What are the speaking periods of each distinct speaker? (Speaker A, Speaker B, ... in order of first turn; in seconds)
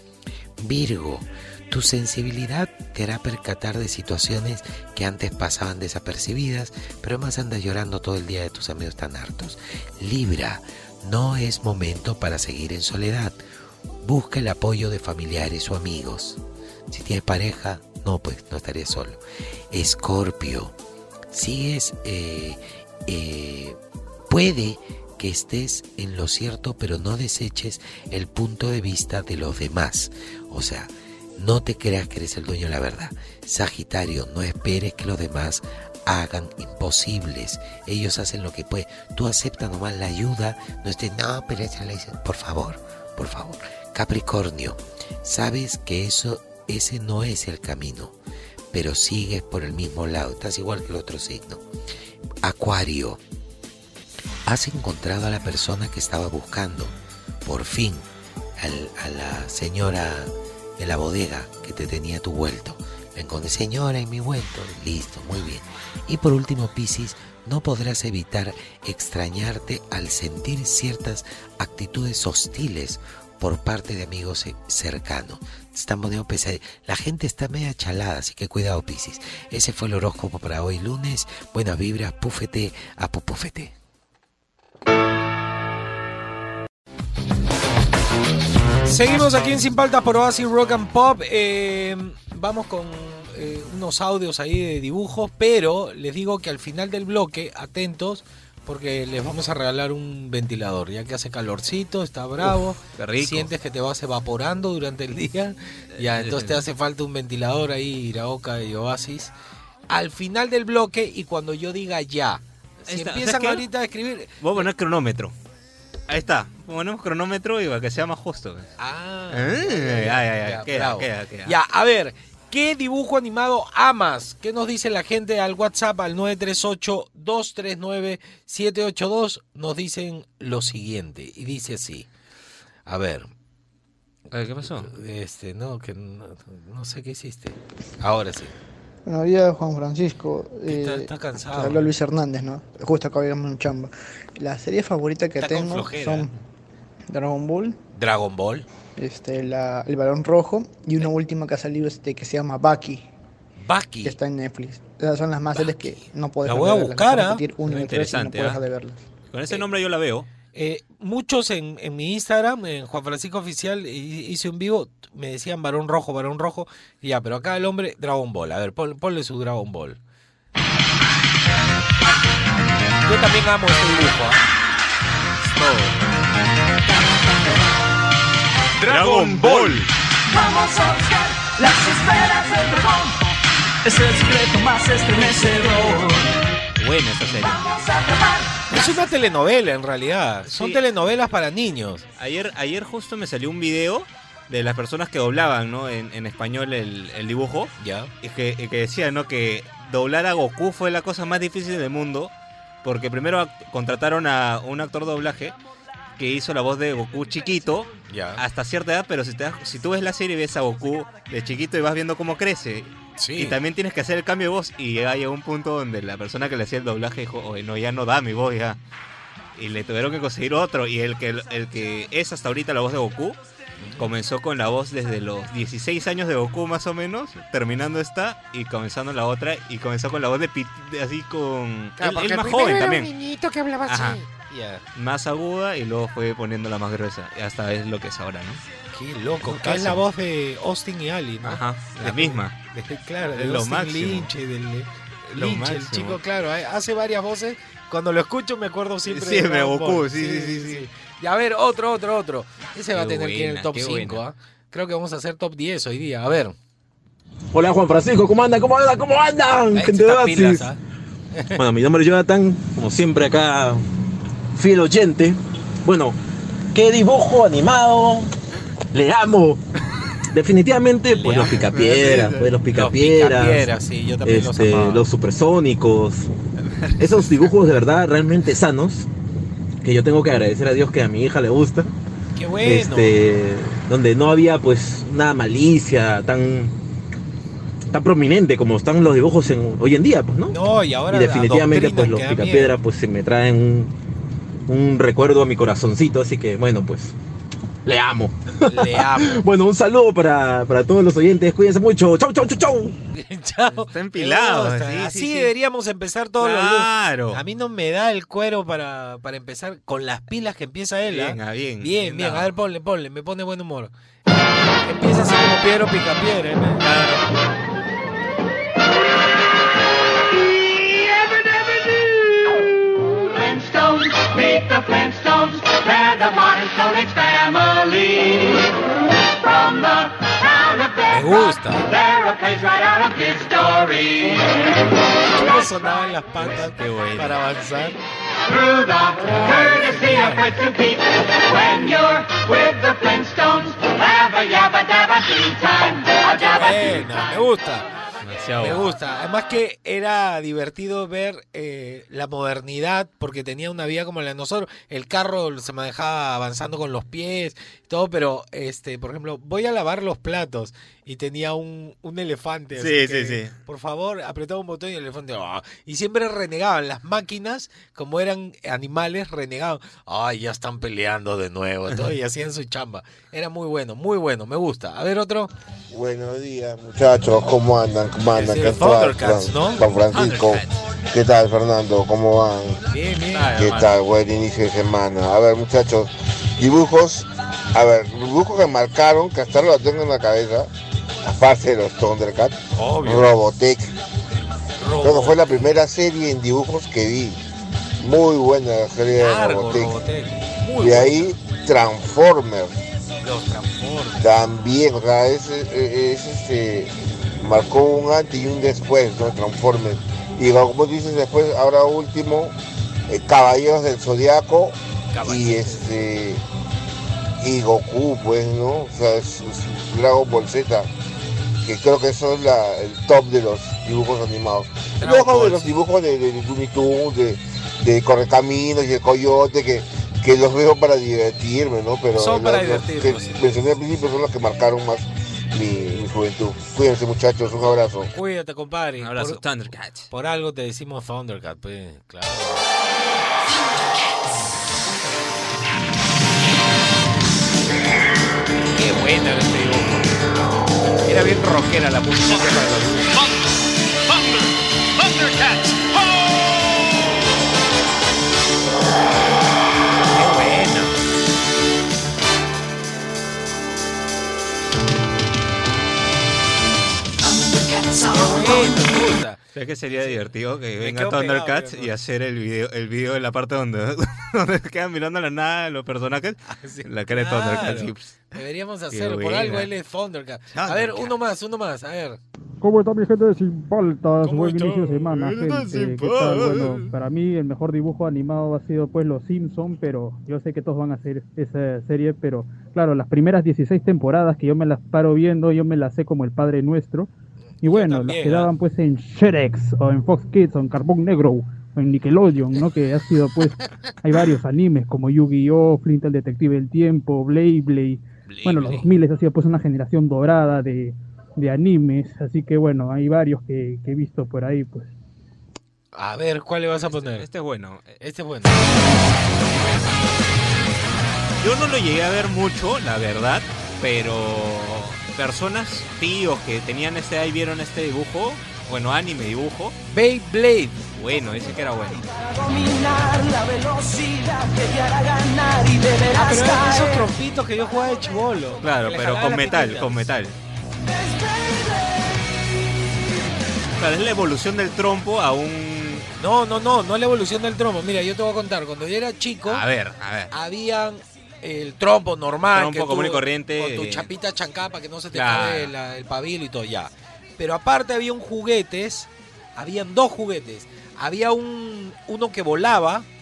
Speaker A: 0.6-13.4, 14.0-20.7, 21.3-48.1, 48.7-51.6, 52.4-53.2, 54.5-83.7
Speaker B: 88.8-109.3, 109.9-114.7, 118.8-132.1, 132.9-133.3, 134.8-138.5, 140.6-141.9, 145.4-146.3, 147.9-148.7, 153.6-154.2, 156.4-157.4, 160.5-170.0, 173.0-174.4, 188.7-192.0, 197.8-198.1, 208.1-208.4, 213.2-213.6, 232.0-234.8, 238.9-256.5, 259.7-260.8, 261.3-261.6, 271.1-275.1, 282.4-283.2, 290.5-292.8, 298.7-299.4, 303.1-313.9, 314.8-316.8, 331.1-331.9, 335.1-338.0, 339.0-340.7, 346.2-347.9, 348.6-375.5, 378.3-379.8, 382.9-383.5, 392.7-393.4, 394.8-395.6, 399.1-401.3, 403.2-404.3, 415.1-415.9, 425.0-425.6, 432.1-433.6, 438.1-439.4, 440.1-442.6, 448.7-450.1, 451.1-453.2, 460.1-460.9, 468.1-469.4, 470.8-471.9, 476.5-482.2, 484.2-485.4, 497.6-498.5, 515.9-517.2, 518.0-518.7, 529.9-530.8, 536.1-540.1, 546.2-549.6, 550.3-563.0
Speaker C: 102.4-103.5, 106.0-106.6, 112.9-113.6, 114.4-115.3, 116.1-118.7, 119.3-121.5, 134.3-134.9, 157.7-158.6, 159.3-160.3, 178.8-179.9, 186.8-187.6, 190.4-190.8, 192.2-202.3, 202.8-205.6, 206.2-218.8, 219.6-223.4, 224.0-233.1, 233.8-234.2, 234.9-238.6, 239.4-240.0, 241.4-242.5, 243.3-244.3, 245.3-246.2, 249.1-250.9, 252.9-254.2, 271.7-272.5, 276.6-277.3, 303.8-305.5, 306.4-307.4, 311.1-312.5, 316.8-317.2, 336.4-337.4, 348.2-349.0, 362.8-363.5, 380.1-380.8, 383.3-383.9, 439.0-440.1, 469.5-478.3, 478.9-479.7, 480.5-481.1, 485.1-486.9, 508.3-508.9, 516.9-518.0, 521.4-529.7, 531.0-532.0, 538.6-540.3, 543.8-546.1, 549.5-550.3, 552.5-554.1, 555.1-555.7
Speaker D: 139.1-146.3, 147.1-147.8, 149.0-153.0, 154.0-159.0
Speaker E: 180.3-183.2, 183.8-186.3, 187.4-189.0, 467.2-468.9, 532.1-537.1, 540.8-542.5
Speaker F: 257.5-260.7, 261.6-263.8, 264.5-266.1, 266.7-268.3, 268.9-269.6, 270.3-273.7, 274.2-276.3, 277.0-279.1, 279.8-281.9, 282.6-286.7, 287.9-290.6, 291.1-293.9, 294.7-297.1, 297.8-302.9
Speaker G: 375.9-382.8, 383.6-390.7, 391.2-393.9, 395.0-397.4, 398.0-399.9, 400.8-402.8, 404.2-412.5, 413.1-416.4, 417.4-420.9, 421.6-438.1
Speaker H: 482.6-497.1, 497.6-514.9